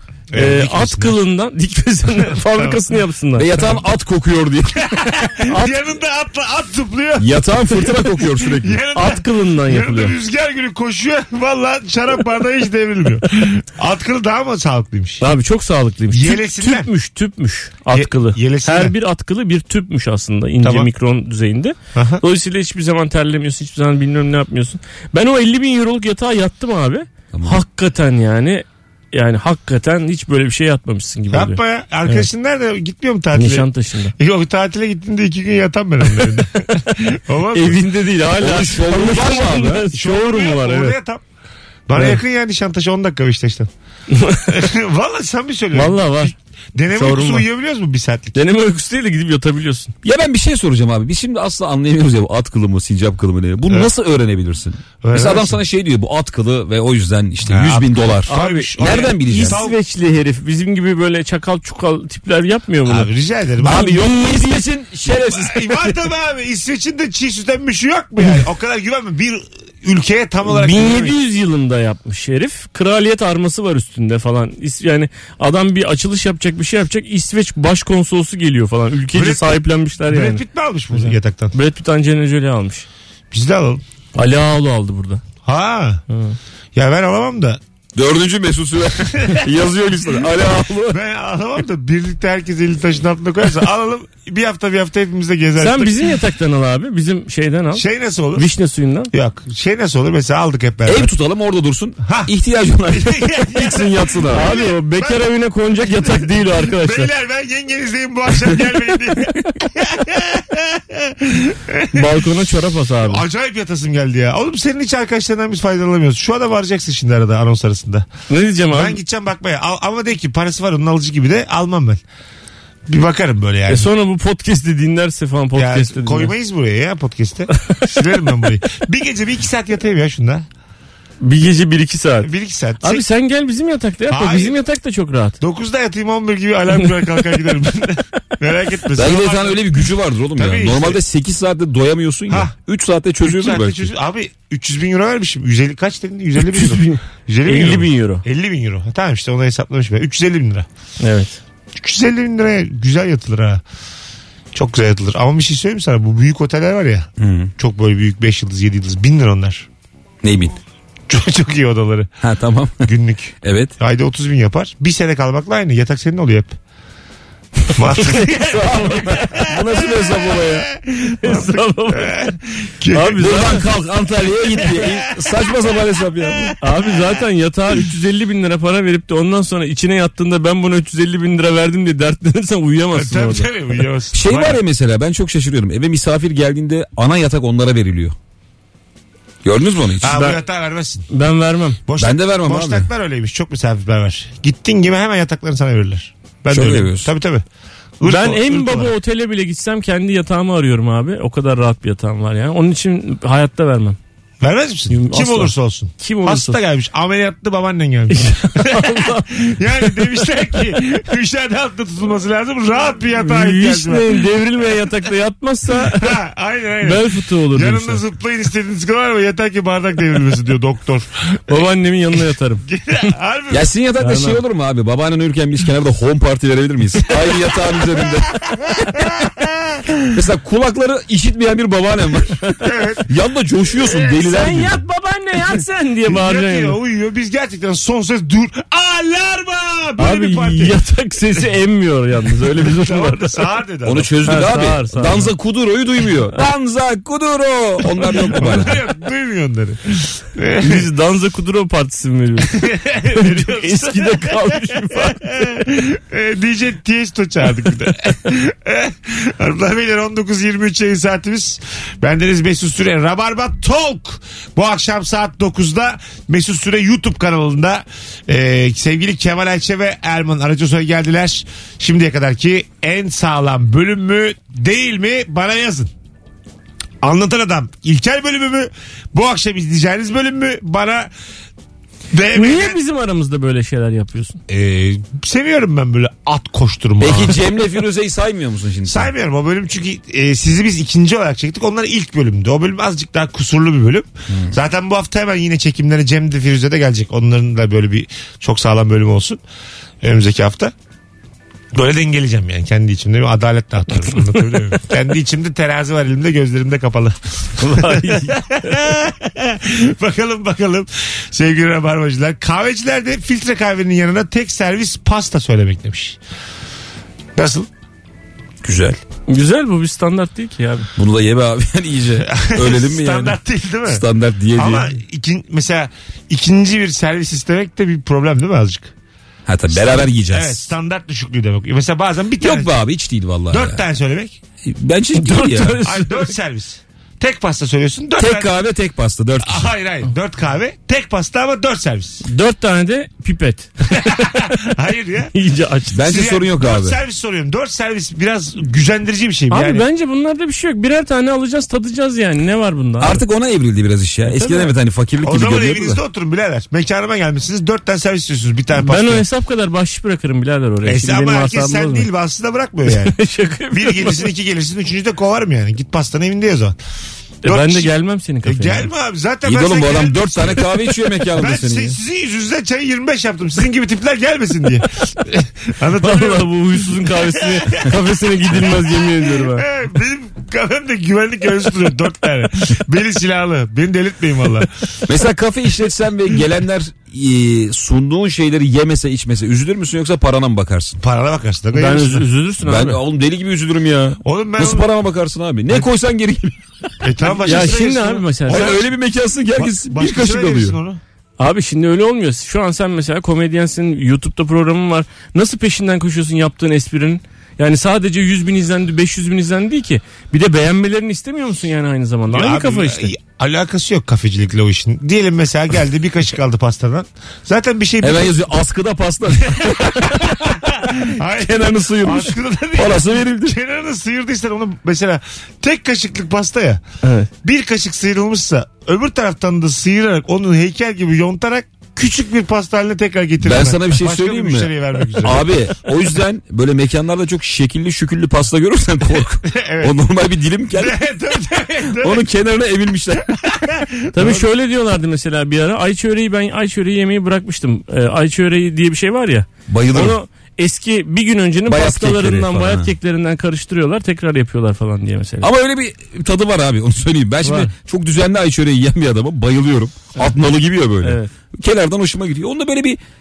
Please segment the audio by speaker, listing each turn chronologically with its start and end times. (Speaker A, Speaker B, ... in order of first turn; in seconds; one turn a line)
Speaker A: 0.3-1.2
Speaker B: 0.3-3.5
Speaker A: 2.1-2.8
Speaker C: 3.4-5.0
Speaker A: 4.8-15.2
Speaker B: 5.5-5.8
Speaker C: 7.2-8.8
Speaker B: 8.9-10.2
Speaker B: 15.2-32.3
Speaker A: 16.1-16.9
Speaker A: 17.9-18.9
Speaker A: 20.6-20.9
Speaker A: 21.9-22.2
Speaker C: 27.3-27.6
Speaker A: 31.3-37.8
Speaker B: 33.3-34.1
Speaker B: 36.2-36.9
Speaker B: 37.5-41.0
Speaker C: 38.4-39.9
Speaker A: 39.9-41.2
Speaker A: 41.9-43.7
Speaker B: 41.9-42.2
Speaker B: 44.1-44.6
Speaker A: 44.5-48.4
Speaker B: 45.7-46.3
Speaker B: 46.9-47.5
Speaker B: 48.3-49.9
Speaker C: 50.0-59.6
Speaker A: 55.0-55.6
Speaker A: 57.5-59.8
Speaker B: 58.3-63.1
Speaker A: 62.9-64.0
Speaker B: 63.6-64.7
Speaker C: 63.6-66.0
Speaker A: 65.1-71.2
Speaker B: 70.4-80.4
Speaker A: 79.1-81.5
Speaker B: 80.9-82.8
Speaker A: 83.3-83.8
Speaker B: 84.1-85.2
Speaker A: 85.4-86.0
Speaker B: 86.1-86.3
Speaker A: 86.7-87.6
Speaker C: 87.9-91.0
Speaker A: 89.1-89.5
Speaker A: 90.9-96.1
Speaker B: 95.6-99.1
Speaker A: 97.7-98.5
Speaker A: 99.1-101.1
Speaker C: 100.9-104.5
Speaker A: 102.0-102.3
Speaker A: 102.9-105.2
Speaker B: 104.3-107.1
Speaker A: 105.8-112.2
Speaker B: 111.9-113.2
Speaker A: 113.0-118.1
Speaker B: 118.3-119.0
Speaker A: 118.7-122.0
Speaker A: 122.9-123.9
Speaker B: 123.7-126.3
Speaker A: 125.5-130.5
Speaker B: 131.2-135.4
Speaker A: 132.2-133.0
Speaker A: 134.1-134.6
Speaker A: 135.4-139.8
Speaker C: 138.9-143.9
Speaker A: 140.3-141.0
Speaker A: 143.2-150.7
Speaker B: 146.4-148.2
Speaker B: 151.0-151.4
Speaker A: 151.8-153.6
Speaker A: 154.5-159.7
Speaker C: 157.2-157.5
Speaker C: 160.2-160.6
Speaker A: 161.1-162.1
Speaker C: 162.2-162.9
Speaker A: 162.8-166.6
Speaker C: 163.4-163.7
Speaker B: 167.7-169.5
Speaker A: 167.7-173.3
Speaker C: 168.5-170.7
Speaker B: 171.1-172.2
Speaker B: 172.9-173.7
Speaker C: 173.2-176.6
Speaker A: 174.6-175.3
Speaker A: 176.3-176.6
Speaker B: 176.6-183.5
Speaker A: 182.9-184.6
Speaker C: 184.1-188.1
Speaker C: 189.4-190.2
Speaker A: 190.0-191.1
Speaker B: 190.1-190.4
Speaker B: 191.1-191.8
Speaker A: 191.9-197.4
Speaker C: 192.0-192.9
Speaker C: 196.5-197.1
Speaker A: 198.0-198.9
Speaker B: 198.0-204.0
Speaker A: 204.4-214.2
Speaker B: 204.9-206.6
Speaker B: 208.1-210.3
Speaker B: 213.2-216.2
Speaker A: 215.8-221.6
Speaker B: 216.8-218.0
Speaker B: 221.5-223.1
Speaker A: 222.7-223.7
Speaker C: 223.5-228.4
Speaker B: 224.0-224.4
Speaker A: 228.8-230.1
Speaker C: 230.1-232.4
Speaker A: 232.6-233.1
Speaker C: 233.1-234.8
Speaker B: 234.2-236.8
Speaker A: 236.0-240.8
Speaker B: 240.0-243.4
Speaker A: 242.5-244.1
Speaker C: 243.8-248.8
Speaker B: 244.2-245.3
Speaker A: 248.2-250.9
Speaker B: 250.6-255.3
Speaker A: 252.5-275.9
Speaker A: 277.0-281.1
Speaker A: 282.1-282.8
Speaker B: 282.3-284.4
Speaker A: 284.5-287.4
Speaker C: 287.0-289.1
Speaker A: 288.9-299.4
Speaker A: 300.0-300.7
Speaker A: 301.7-316.2
Speaker B: 307.6-308.8
Speaker A: 317.4-317.7
Speaker C: 318.6-319.0
Speaker B: 319.3-320.9
Speaker C: 321.0-324.9
Speaker A: 322.2-324.0
Speaker A: 324.6-328.9
Speaker C: 329.5-330.6
Speaker A: 329.7-332.8
Speaker C: 332.4-333.8
Speaker A: 333.5-334.4
Speaker C: 334.6-335.8
Speaker B: 335.1-336.3
Speaker A: 335.8-338.5
Speaker C: 338.2-339.7
Speaker A: 339.4-342.2
Speaker B: 342.2-344.5
Speaker A: 343.9-345.3
Speaker B: 345.3-346.0
Speaker C: 345.9-347.0
Speaker A: 346.0-349.8
Speaker B: 349.5-353.2
Speaker C: 353.0-356.0
Speaker B: 354.2-354.7
Speaker A: 355.2-359.2
Speaker B: 358.8-362.1
Speaker A: 360.8-363.1
Speaker B: 362.9-364.3
Speaker A: 363.7-366.8
Speaker B: 367.4-368.9
Speaker A: 367.4-367.9
Speaker A: 368.4-384.7
Speaker C: 369.4-372.0
Speaker B: 376.0-379.7
Speaker C: 385.1-391.0
Speaker A: 391.0-392.3
Speaker B: 391.7-393.0
Speaker C: 392.6-396.6
Speaker A: 394.2-394.9
Speaker A: 397.0-398.9
Speaker B: 397.4-398.7
Speaker C: 398.5-400.8
Speaker A: 399.6-401.0
Speaker B: 401.4-413.1
Speaker A: 412.3-418.4
Speaker C: 418.0-423.6
Speaker A: 419.4-426.8
Speaker B: 427.0-427.3
Speaker A: 427.4-435.5
Speaker C: 433.4-441.0
Speaker A: 439.4-440.0
Speaker A: 440.7-442.2
Speaker C: 441.9-443.4
Speaker A: 443.3-444.4
Speaker B: 444.1-455.5
Speaker C: 449.7-450.2
Speaker C: 451.7-452.9
Speaker C: 455.4-463.0
Speaker B: 457.4-457.7
Speaker B: 461.0-461.3